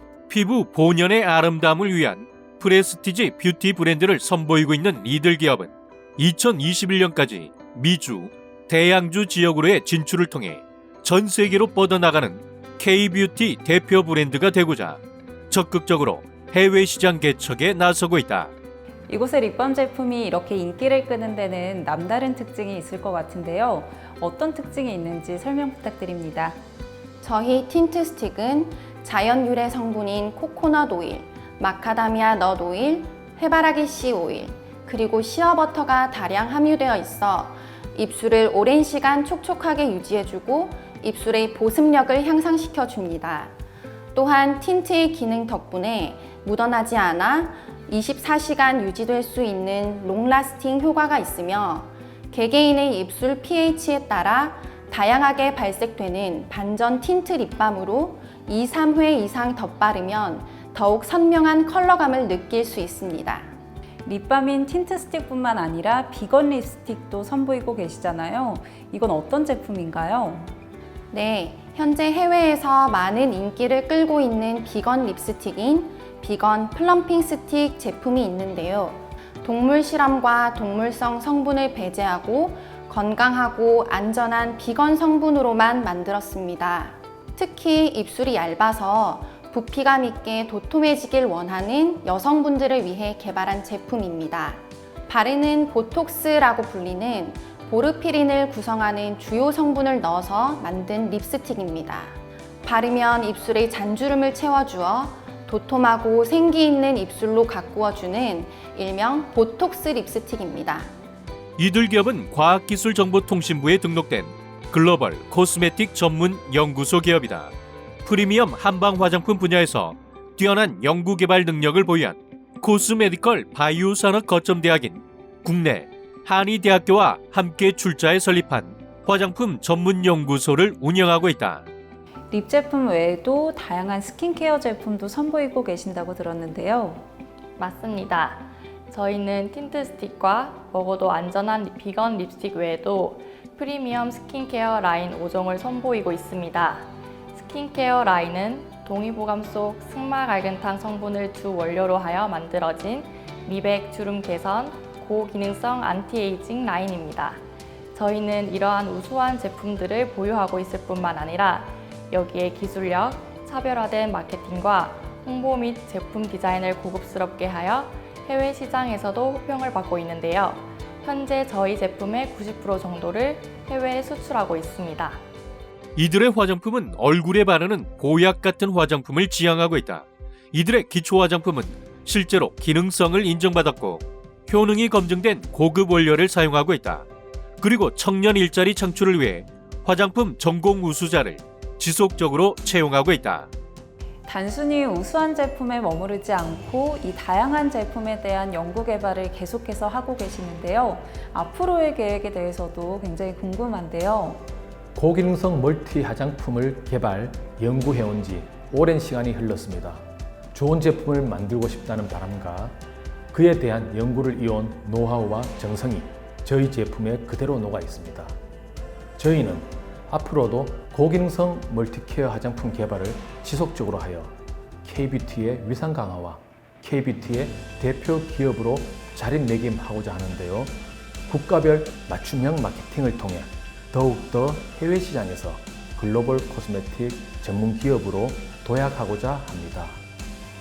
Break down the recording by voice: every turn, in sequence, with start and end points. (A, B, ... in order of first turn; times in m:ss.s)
0:00.3-0:18.5 A
0:19.1-0:26.6 B
0:27.2-0:43.5 C
0:44.1-1:03.5 C
1:04.0-1:10.5 B
1:11.1-1:50.9 C
1:51.6-1:57.5 A
1:58.0-2:11.6 A
2:12.3-2:17.0 B
2:17.6-2:37.4 D
2:37.9-2:55.2 D
2:56.0-3:07.1 A
3:07.6-3:13.5 A
3:14.2-3:24.4 B
3:25.0-3:32.8 E
3:33.3-3:38.4 E
3:39.2-4:00.0 E